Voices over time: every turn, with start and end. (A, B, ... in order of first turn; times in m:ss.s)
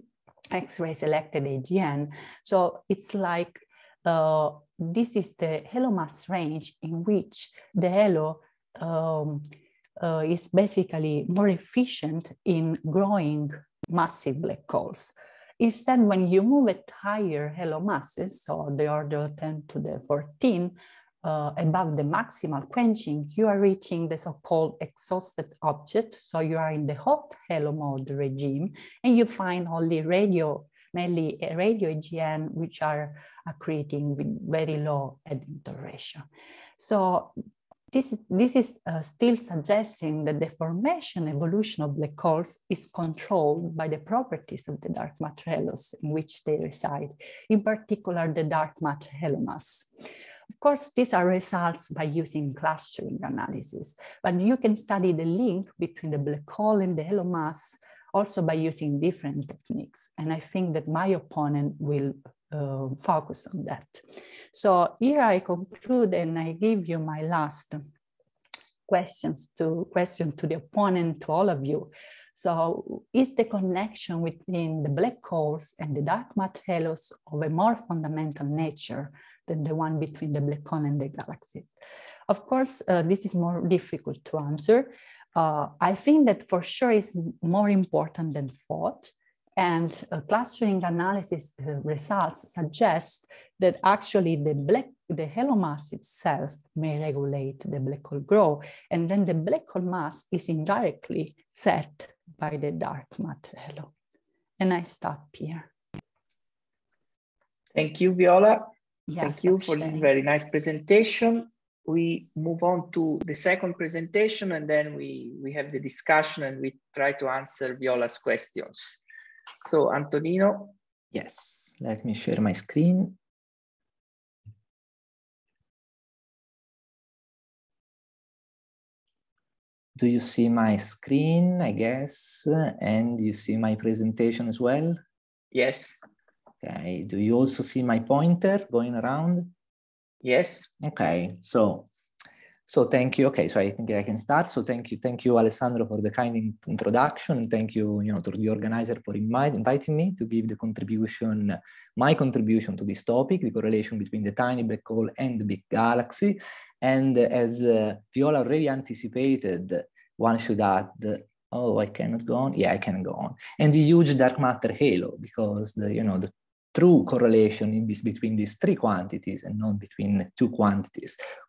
0:00.5-0:09.5 A
0:10.0-0:36.2 A
0:36.8-0:37.3 A
0:37.9-0:49.9 A
0:50.6-1:07.8 A
1:08.9-1:21.7 A
1:22.3-1:43.9 A
1:44.6-1:45.7 A
1:47.7-1:48.7 B
1:49.1-1:50.1 A
1:49.2-1:59.0 B
1:59.6-2:00.8 B
2:01.1-2:03.2 C
2:10.0-2:15.0 C
2:15.5-2:16.1 B
2:16.6-2:19.5 C
2:20.2-2:20.7 B
2:20.8-2:21.9 C
2:22.7-2:51.2 C